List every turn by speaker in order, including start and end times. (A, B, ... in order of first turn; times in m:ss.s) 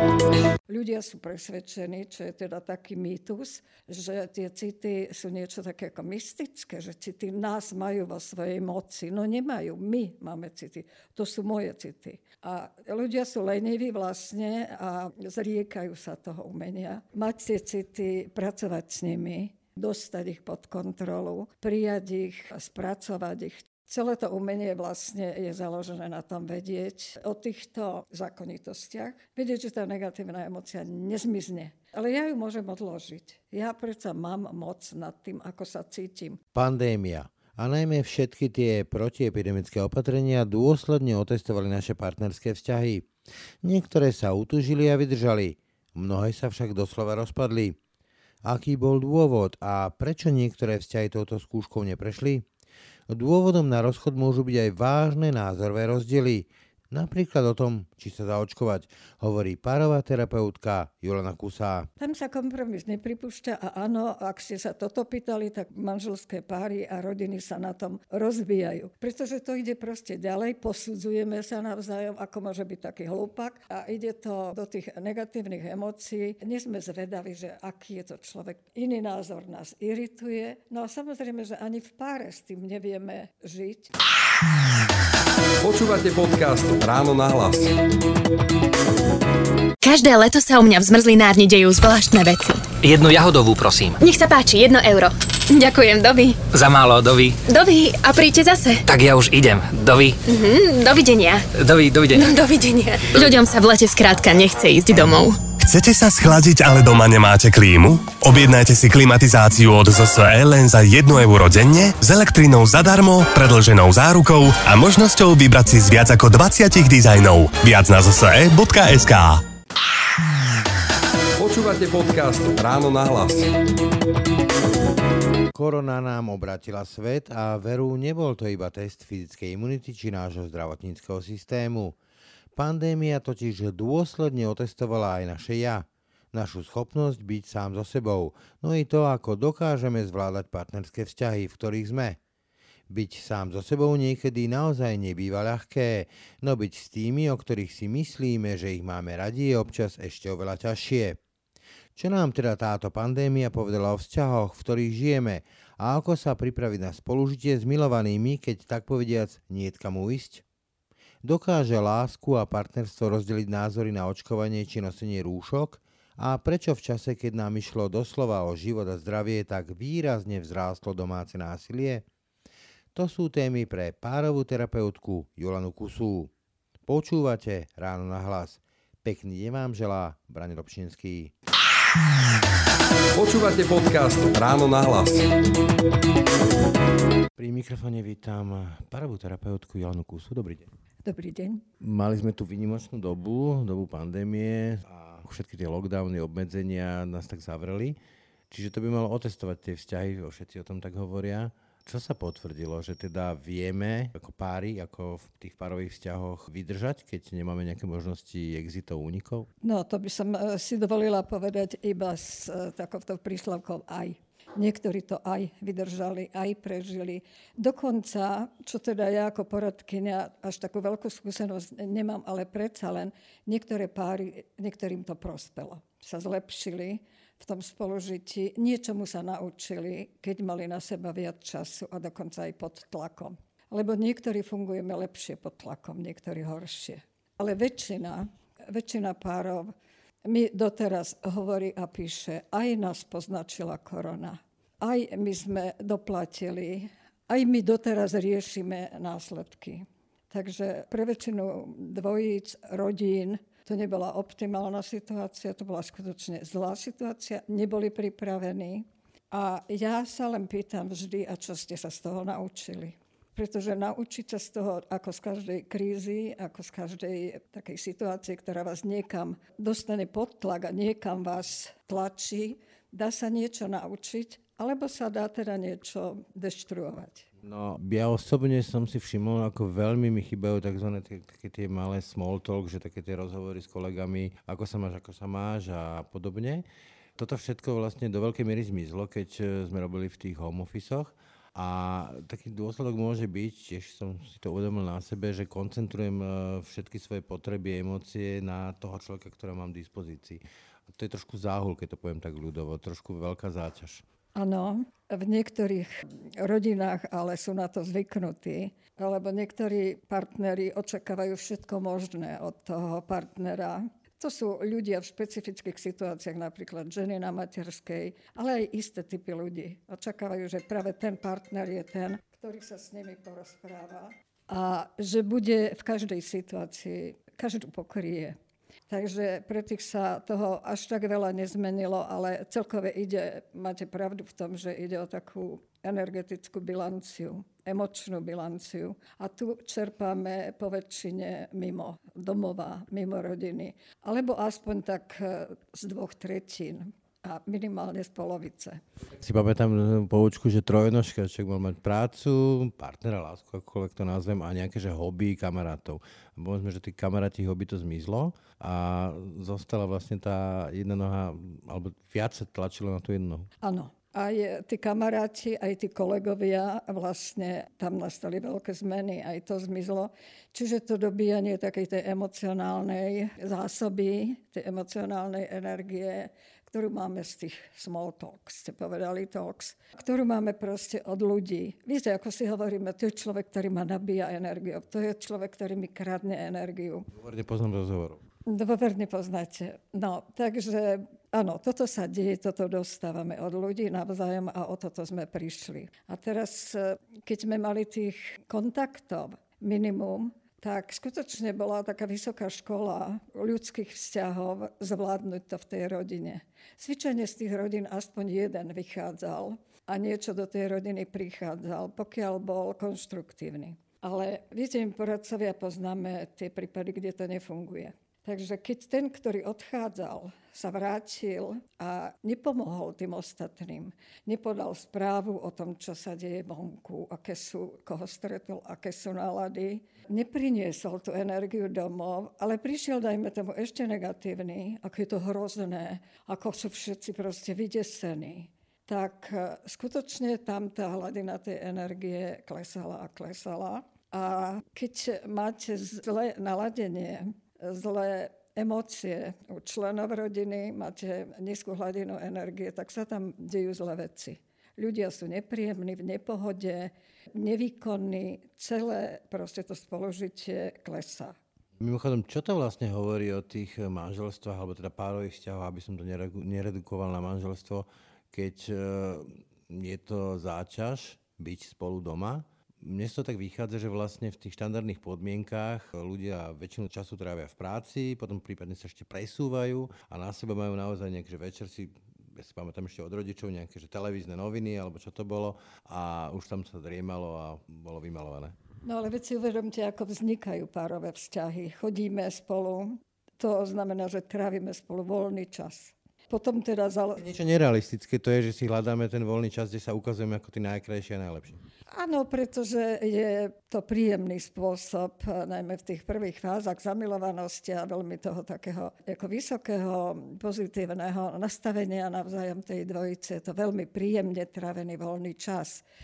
0:00.7-0:36.4 A
0:36.5-0:43.1 B
0:43.6-0:47.8 B
0:48.4-0:52.4 B
0:53.1-1:01.9 B
1:02.0-1:23.9 A
1:25.6-1:27.7 C
1:29.8-1:32.7 D
1:32.8-1:34.0 E
1:34.0-1:36.4 D
1:36.5-1:37.4 E
1:37.4-1:38.8 D
1:38.8-1:40.2 E
1:40.2-1:41.5 D
1:41.5-1:42.3 E
1:42.1-1:45.5 D
1:45.6-1:59.4 F
2:01.4-2:03.5 C
2:05.5-2:12.0 B
2:12.5-2:22.2 B
2:22.9-2:31.2 B
2:32.0-2:40.4 B
2:41.2-2:52.0 B
2:52.9-2:56.3 B
2:56.8-3:01.3 B
3:03.1-3:05.3 C
3:07.4-3:10.7 B
3:11.0-3:11.6 A
3:11.8-3:18.0 B
3:18.5-3:29.5 B
3:29.6-3:59.7 A
4:00.2-4:37.3 A
4:37.4-4:46.6 B
4:47.2-5:04.0 B
5:04.3-5:28.4 A
5:28.9-5:48.8 A
5:49.0-6:03.5 B
6:03.6-6:27.1 A
6:27.1-6:28.2 B
6:28.4-7:41.4 A
7:41.8-8:08.6 B
8:08.8-8:17.2 A
8:17.2-8:21.6 B
8:21.9-8:35.8 A